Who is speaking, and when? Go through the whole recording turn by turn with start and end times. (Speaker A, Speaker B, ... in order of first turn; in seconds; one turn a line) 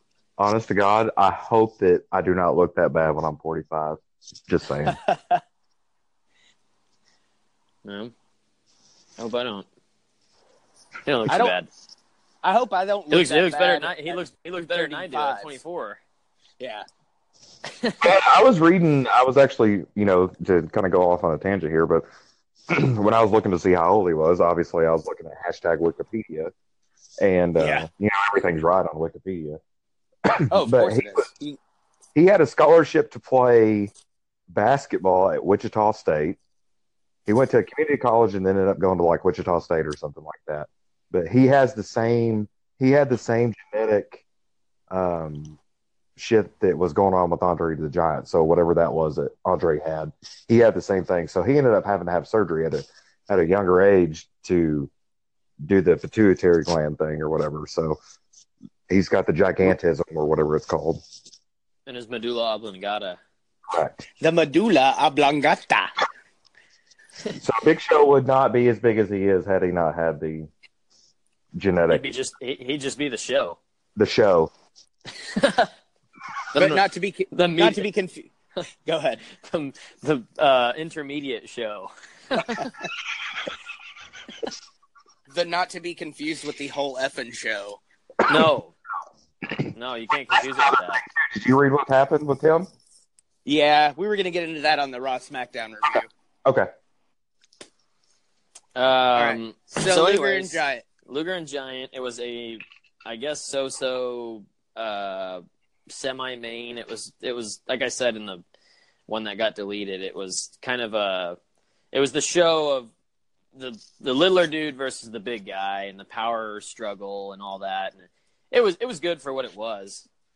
Speaker A: 0.4-5.0
Speaker B: 4.9-5.4
Speaker C: 7.8-8.1
Speaker C: 9.2-9.7
Speaker C: 11.1-11.7
Speaker B: 11.3-11.6
Speaker B: 12.4-15.6
Speaker C: 13.1-16.0
Speaker B: 16.6-16.9
Speaker C: 17.7-18.2
Speaker A: 18.0-22.1
Speaker A: 22.7-26.5
Speaker A: 27.2-29.6
Speaker B: 27.6-27.9
Speaker A: 30.2-31.3
Speaker B: 30.5-31.6
Speaker A: 32.1-33.9
Speaker A: 34.5-36.4
Speaker A: 37.3-44.2
Speaker A: 44.9-45.6
Speaker A: 46.2-54.9
Speaker A: 55.6-58.0
Speaker A: 58.9-61.0
Speaker C: 61.9-63.2
Speaker A: 63.7-64.0
Speaker B: 64.2-65.9
Speaker A: 67.4-70.5
Speaker A: 71.5-72.1
Speaker C: 71.9-73.6
Speaker A: 74.0-74.5
Speaker C: 75.3-75.7
Speaker C: 76.5-77.9
Speaker B: 76.5-78.3
Speaker B: 78.8-79.2
Speaker C: 79.3-82.7
Speaker B: 85.3-87.8
Speaker C: 88.3-88.7
Speaker C: 89.7-91.0
Speaker A: 90.6-92.7
Speaker B: 93.5-96.1
Speaker A: 96.5-96.7
Speaker C: 98.8-108.4
Speaker B: 99.2-100.8
Speaker C: 109.1-111.4
Speaker C: 111.9-112.9
Speaker C: 113.5-120.1